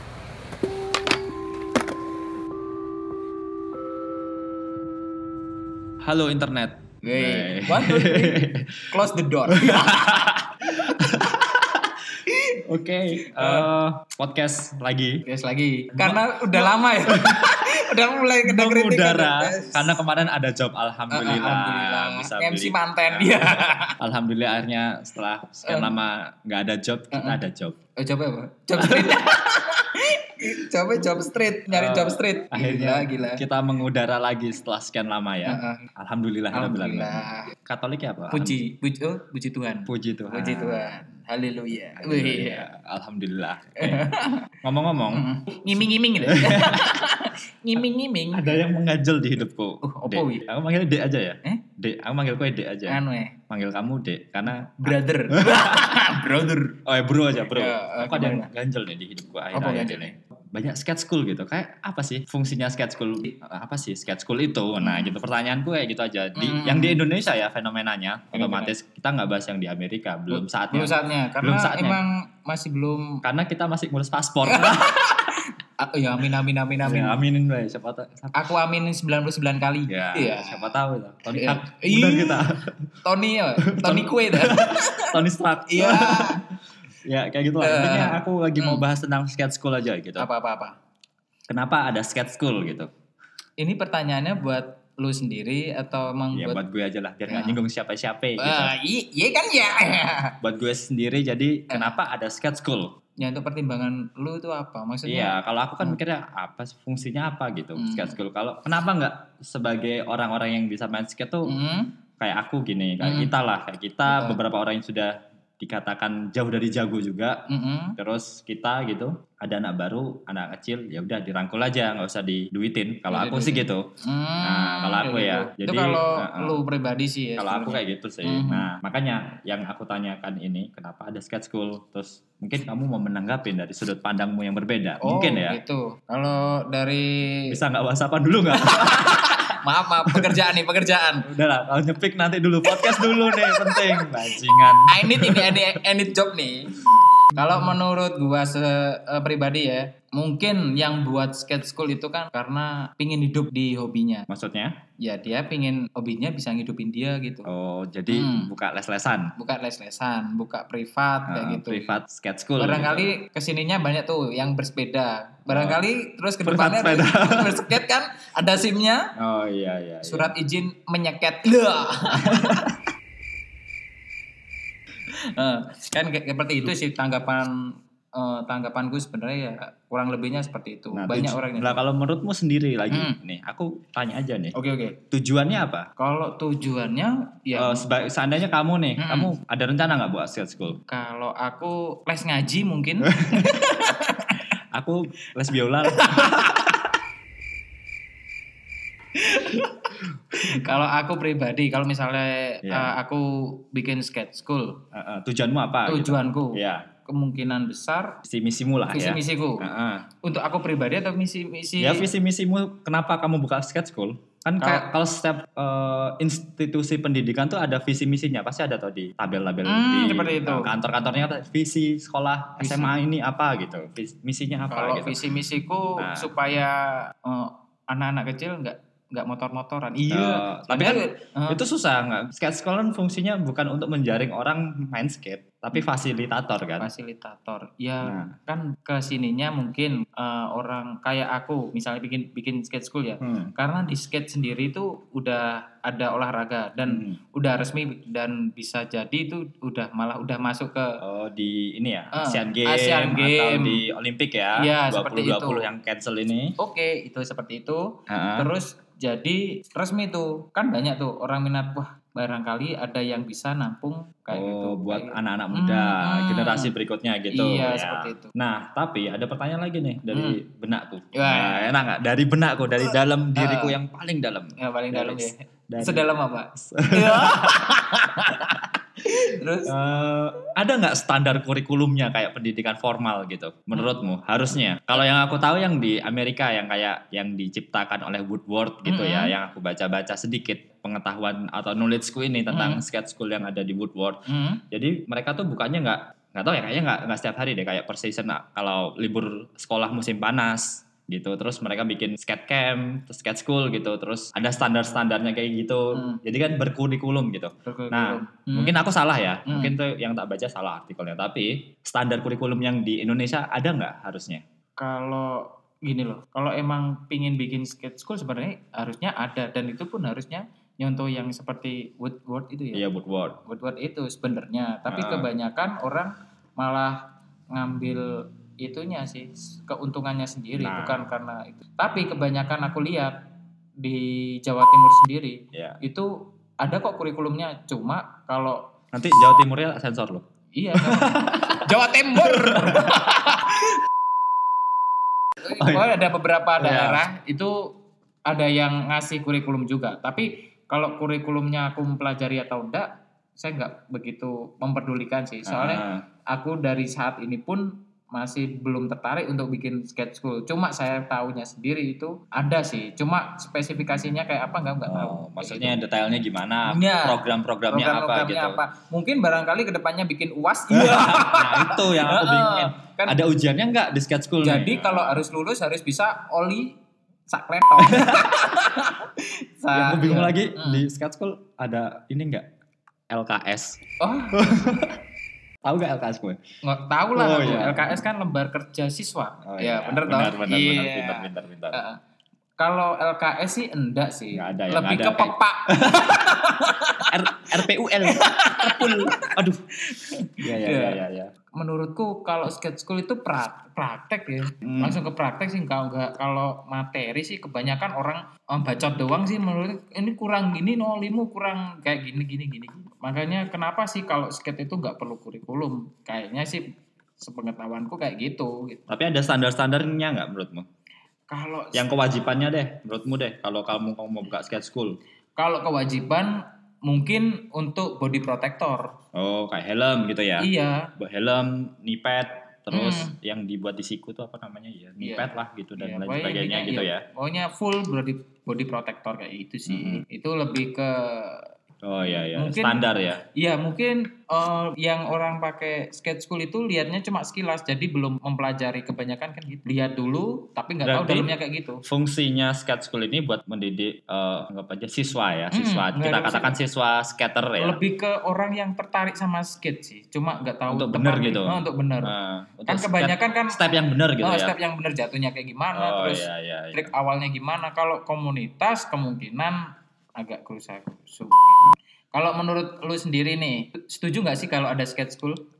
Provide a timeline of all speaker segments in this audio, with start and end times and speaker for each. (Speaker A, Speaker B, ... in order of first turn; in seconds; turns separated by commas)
Speaker A: 6.0-12.1, Speaker B: 7.0-10.1, Speaker B: 12.3-12.6, Speaker A: 12.6-15.2, Speaker B: 13.2-13.7, Speaker B: 15.2-19.9, Speaker A: 15.9-17.6, Speaker A: 18.4-27.8, Speaker B: 21.1-23.9, Speaker B: 25.6-25.9, Speaker B: 27.1-27.4, Speaker B: 28.0-33.4, Speaker A: 28.8-29.4, Speaker A: 31.7-38.6, Speaker B: 35.4-35.8, Speaker B: 36.5-37.5, Speaker B: 38.3-42.7, Speaker A: 39.9-41.0, Speaker A: 41.9-44.1, Speaker B: 43.8-44.5, Speaker A: 44.6-46.9, Speaker B: 45.1-48.6, Speaker A: 48.3-55.9, Speaker B: 49.8-50.5, Speaker B: 52.9-53.4, Speaker B: 54.8-56.8, Speaker A: 56.9-72.0, Speaker B: 57.5-58.5, Speaker B: 59.5-60.1, Speaker B: 64.8-65.2, Speaker B: 66.3-67.0, Speaker B: 68.3-68.7, Speaker B: 70.3-73.2, Speaker A: 73.2-74.9, Speaker B: 74.5-77.2, Speaker A: 76.8-78.3, Speaker B: 78.3-80.7, Speaker A: 79.9-82.9, Speaker B: 81.3-82.4, Speaker B: 83.0-85.1, Speaker A: 83.7-86.5, Speaker B: 85.7-86.4, Speaker A: 87.0-90.3, Speaker B: 87.6-88.8, Speaker B: 90.2-90.8, Speaker A: 91.5-92.9, Speaker B: 93.6-96.6, Speaker A: 96.3-98.7, Speaker B: 97.3-97.6, Speaker B: 98.4-100.3, Speaker A: 100.4-102.9, Speaker B: 101.7-102.0, Speaker B: 103.2-106.0, Speaker A: 105.0-111.5, Speaker B: 107.8-108.2, Speaker B: 111.5-111.9, Speaker A: 112.2-117.4, Speaker B: 113.0-113.3, Speaker B: 114.1-114.4, Speaker B: 117.5-118.0, Speaker A: 118.0-123.8, Speaker B: 123.1-128.7, Speaker A: 124.4-126.6, Speaker A: 127.4-135.6, Speaker B: 135.0-137.5, Speaker A: 137.5-139.6, Speaker B: 138.5-141.3, Speaker A: 140.1-140.4, Speaker A: 141.2-145.8, Speaker B: 142.7-144.1, Speaker B: 144.9-154.3, Speaker A: 154.3-154.7, Speaker B: 155.0-157.5, Speaker A: 157.5-159.3, Speaker B: 158.1-158.5, Speaker B: 159.4-162.0, Speaker A: 161.3-163.1, Speaker B: 162.6-169.1, Speaker A: 165.5-165.8, Speaker A: 166.4-167.7, Speaker A: 169.2-170.3, Speaker B: 170.0-172.7, Speaker A: 172.2-172.8, Speaker B: 175.2-181.8, Speaker A: 180.9-184.5, Speaker B: 182.9-183.2, Speaker B: 184.5-185.0, Speaker A: 185.1-185.9, Speaker B: 186.0-187.9, Speaker A: 187.5-190.8, Speaker B: 189.0-189.3, Speaker B: 190.9-194.5, Speaker A: 193.2-193.6, Speaker A: 194.7-196.9, Speaker B: 195.8-196.8, Speaker B: 199.2-204.8, Speaker A: 202.6-202.9, Speaker A: 204.9-206.9, Speaker B: 205.8-208.2, Speaker A: 208.2-210.0, Speaker B: 208.9-209.7, Speaker B: 210.2-212.1, Speaker A: 211.8-225.2, Speaker B: 214.6-214.9, Speaker B: 219.7-220.7, Speaker B: 222.6-222.9, Speaker B: 224.7-231.6, Speaker A: 226.0-226.3, Speaker A: 230.1-236.9, Speaker B: 236.8-250.9, Speaker A: 238.0-238.3, Speaker A: 243.2-243.5, Speaker A: 246.8-247.2, Speaker A: 251.0-256.5, Speaker B: 252.1-253.8, Speaker B: 254.6-255.7, Speaker B: 256.6-266.7, Speaker A: 258.1-258.5, Speaker A: 264.3-277.8, Speaker B: 267.3-268.3, Speaker B: 270.1-270.4, Speaker B: 271.1-271.7, Speaker B: 273.4-273.8, Speaker B: 274.6-279.7, Speaker A: 279.7-314.4, Speaker B: 288.9-289.3, Speaker B: 292.5-292.8, Speaker B: 294.3-294.6, Speaker B: 305.9-306.2, Speaker B: 307.6-308.8, Speaker B: 309.4-309.8, Speaker B: 314.8-322.8, Speaker A: 322.7-323.4, Speaker B: 323.4-333.2, Speaker A: 324.9-325.3, Speaker A: 330.6-331.0, Speaker B: 333.8-338.7, Speaker A: 335.5-335.8, Speaker A: 338.9-340.2, Speaker B: 340.6-343.7, Speaker A: 340.8-343.0, Speaker B: 345.4-347.7, Speaker A: 345.6-345.9, Speaker A: 346.6-347.0, Speaker B: 348.3-365.8, Speaker A: 355.4-356.0, Speaker A: 364.9-368.6, Speaker B: 366.6-373.1, Speaker A: 370.7-375.3, Speaker B: 374.4-380.8, Speaker A: 377.8-378.6, Speaker A: 379.7-382.5, Speaker A: 383.1-383.8, Speaker B: 384.0-384.4, Speaker A: 384.3-385.0, Speaker A: 385.6-386.4, Speaker B: 386.6-392.0, Speaker A: 387.1-388.0, Speaker A: 389.4-391.8, Speaker B: 392.6-397.4, Speaker A: 394.3-399.6, Speaker B: 398.0-399.3, Speaker B: 399.9-401.0, Speaker A: 400.4-401.3, Speaker B: 401.6-416.6, Speaker A: 404.6-405.0, Speaker B: 417.2-418.8, Speaker A: 418.9-420.6, Speaker B: 421.3-421.9, Speaker A: 421.7-425.0, Speaker B: 425.4-428.9, Speaker A: 429.1-437.0, Speaker B: 430.4-430.9, Speaker B: 432.7-433.1, Speaker B: 435.0-441.5, Speaker A: 439.7-440.0, Speaker A: 441.8-443.2, Speaker B: 442.3-451.8, Speaker A: 450.8-451.3, Speaker A: 451.8-457.8, Speaker B: 455.5-456.5, Speaker B: 457.6-462.1, Speaker A: 460.7-464.6, Speaker B: 462.7-463.6, Speaker B: 464.2-475.4, Speaker A: 465.7-466.9